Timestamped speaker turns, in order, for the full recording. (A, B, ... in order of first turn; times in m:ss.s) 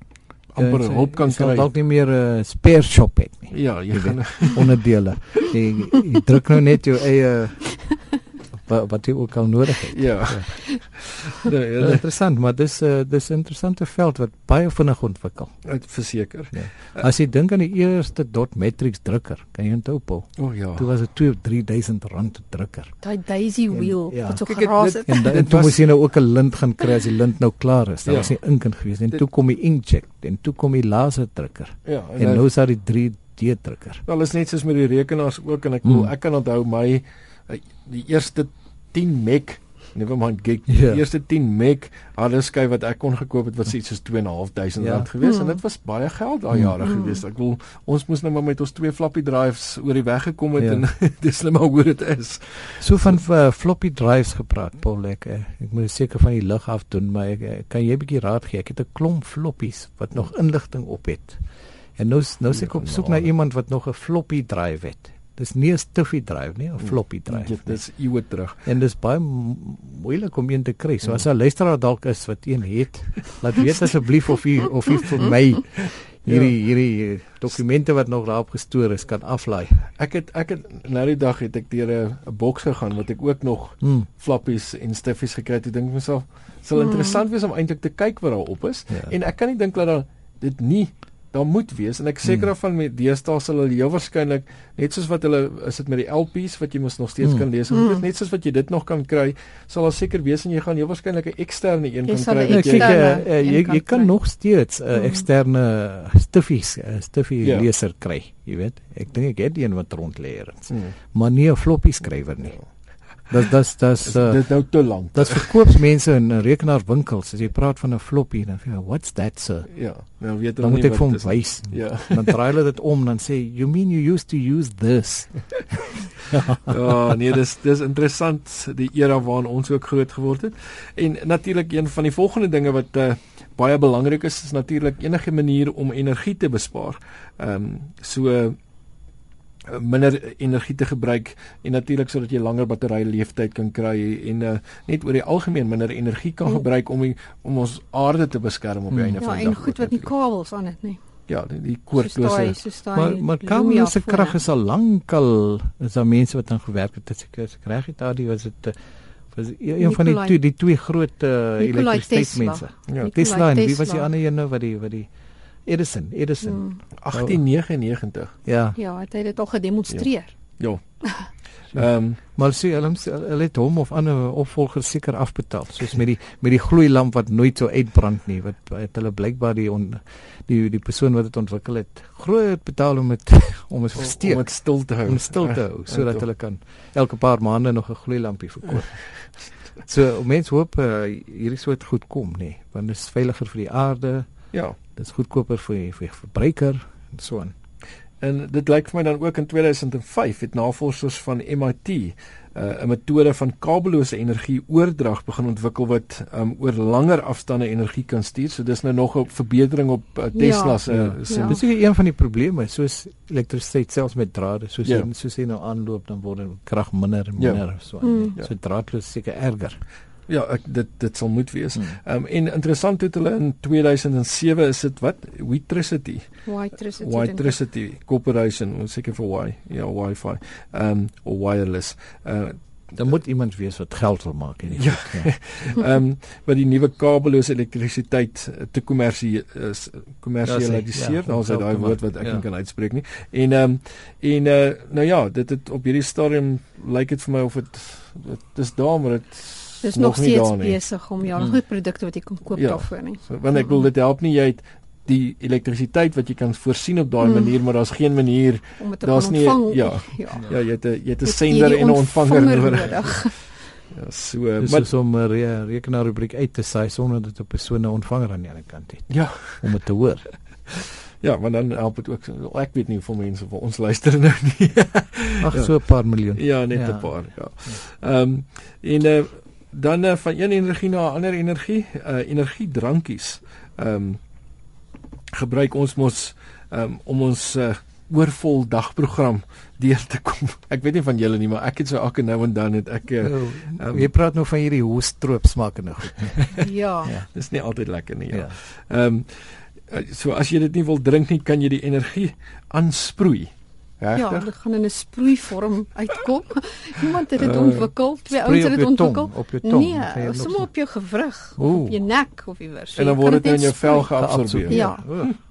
0:00.5-0:01.7 A
0:00.6-0:10.5 B
0:03.5-0:04.8 A
0:09.9-0:12.0 A
0:11.8-0:15.7 B
0:15.6-0:17.1 A
0:16.5-0:23.0 B
0:20.4-0:20.9 A
0:23.0-0:25.2 C
0:23.7-0:34.0 B
0:24.4-0:25.9 A
0:28.0-0:28.4 A
0:31.8-0:32.4 A
0:34.0-0:53.2 A
0:35.8-0:36.1 B
0:40.7-0:41.0 B
0:44.8-0:45.1 B
0:45.2-0:45.6 C
0:46.5-0:46.8 B
0:46.8-0:47.2 C
0:50.6-0:50.8 B
0:52.8-1:07.8 B
1:02.5-1:03.3 A
1:06.8-1:08.6 A
1:08.6-1:19.9 B
1:16.3-1:16.5 A
1:20.0-1:43.1 A
1:23.8-1:24.1 B
1:26.8-1:27.2 C
1:28.9-1:29.1 B
1:32.2-1:32.5 B
1:37.2-1:37.5 B
1:37.7-1:38.0 C
1:42.0-1:44.2 C
1:42.5-1:59.7 B
1:44.9-1:45.2 C
1:47.4-1:47.7 A
1:50.7-1:50.9 A
1:54.0-1:55.6 A
1:59.7-2:02.4 A
2:00.6-2:06.6 B
2:06.6-2:18.6 A
2:19.7-2:30.1 A
2:28.9-2:29.2 B
2:29.2-2:31.0 C
2:31.3-2:32.6 A
2:31.9-2:34.4 C
2:32.9-2:38.8 B
2:39.3-2:45.1 B
2:39.8-2:40.4 C
2:41.6-2:44.1 C
2:45.6-2:47.4 B
2:46.4-2:46.8 C
2:47.0-2:48.3 A
2:48.4-2:48.8 B
2:48.8-2:50.3 C
2:51.7-2:52.2 A
2:51.7-3:17.5 B
3:03.9-3:06.3 A
3:18.2-3:31.6 A
3:30.3-3:31.6 C
3:30.8-3:39.8 B
3:37.4-3:38.5 A
3:38.0-3:38.4 C
3:40.3-3:46.4 A
3:46.4-3:47.6 C
3:47.0-3:52.6 A
3:52.9-3:55.7 B
3:54.7-4:10.8 A
4:00.4-4:02.4 B
4:09.8-4:13.8 C
4:12.6-4:24.9 A
4:17.2-4:17.5 C
4:18.8-4:20.6 C
4:21.2-4:23.6 C
4:24.6-4:30.3 B
4:29.1-4:29.7 A
4:31.2-4:44.2 A
4:35.4-4:37.8 B
4:45.3-4:54.1 A
4:53.2-4:57.3 B
4:56.6-4:57.1 C
4:57.3-5:04.5 A
4:58.3-4:58.5 B
5:04.1-5:14.1 C
5:07.4-5:07.9 A
5:08.3-5:10.7 B
5:11.6-5:12.0 B
5:12.9-5:15.3 A
5:14.2-5:15.3 B
5:14.7-5:15.3 C